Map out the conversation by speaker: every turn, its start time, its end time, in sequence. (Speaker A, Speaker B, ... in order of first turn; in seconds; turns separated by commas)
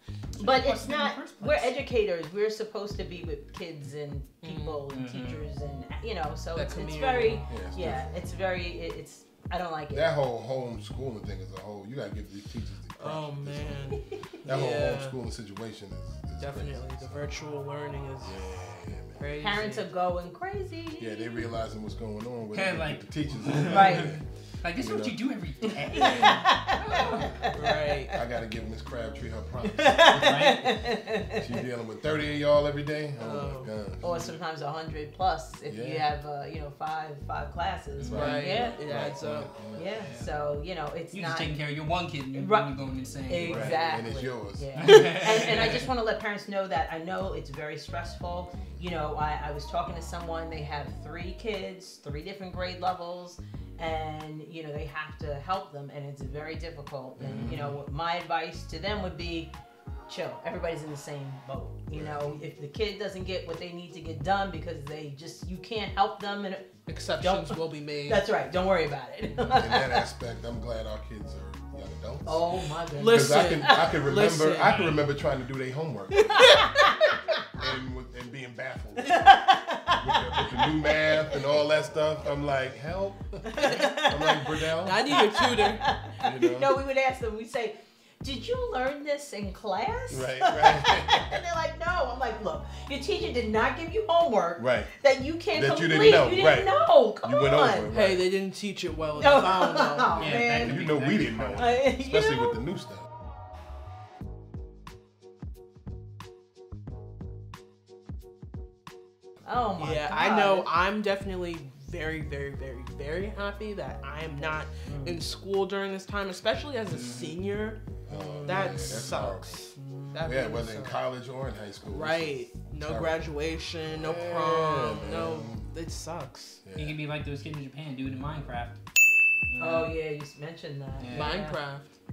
Speaker A: 0.4-10.1, Speaker B: 0.4-1.8, Speaker C: 4.4-4.8, Speaker B: 4.9-5.4, Speaker C: 6.5-7.5, Speaker D: 7.5-8.1, Speaker D: 9.9-17.3, Speaker C: 13.0-15.2, Speaker C: 16.4-18.4, Speaker D: 18.2-19.2, Speaker C: 19.2-19.8, Speaker A: 19.4-21.5, Speaker D: 21.0-25.2, Speaker B: 22.5-27.4, Speaker A: 23.7-24.1, Speaker A: 25.6-28.1, Speaker C: 27.5-28.2, Speaker D: 28.1-30.6, Speaker A: 29.6-31.6, Speaker B: 30.1-30.6, Speaker D: 31.3-34.3, Speaker C: 33.2-33.7, Speaker A: 34.0-38.8, Speaker D: 35.7-36.0, Speaker B: 38.0-38.6, Speaker D: 38.1-40.1, Speaker C: 38.1-39.5, Speaker A: 39.8-41.5, Speaker B: 40.0-40.3, Speaker B: 41.1-44.0, Speaker A: 42.3-42.7, Speaker A: 43.2-59.5, Speaker D: 43.4-45.7, Speaker B: 44.8-45.9, Speaker B: 57.2-57.8, Speaker A: 60.1-70.0, Speaker D: 61.9-62.4, Speaker C: 66.9-68.3, Speaker D: 69.5-72.4, Speaker A: 72.2-74.1, Speaker C: 73.0-74.9, Speaker D: 73.0-76.6, Speaker B: 74.6-75.0, Speaker C: 76.1-77.0, Speaker A: 76.6-77.6, Speaker D: 77.6-79.3, Speaker A: 79.1-81.3, Speaker D: 79.9-85.2, Speaker A: 83.4-97.9, Speaker C: 84.8-85.9, Speaker D: 86.2-86.8, Speaker D: 90.1-91.4, Speaker D: 94.6-94.9, Speaker D: 95.5-98.3, Speaker C: 97.9-100.3, Speaker A: 99.2-100.8, Speaker B: 100.2-101.8, Speaker D: 100.3-103.1, Speaker A: 101.5-102.6, Speaker A: 109.4-110.7, Speaker C: 109.8-117.8, Speaker A: 114.8-115.2, Speaker B: 116.9-117.3, Speaker D: 118.1-119.7, Speaker A: 118.1-119.1, Speaker C: 118.4-121.0, Speaker A: 119.8-120.4, Speaker D: 120.2-123.3, Speaker C: 121.8-126.6, Speaker D: 123.9-125.7, Speaker D: 126.6-127.0, Speaker B: 126.8-128.8, Speaker B: 129.5-129.9, Speaker A: 129.6-131.6, Speaker B: 131.0-131.4, Speaker C: 131.1-131.9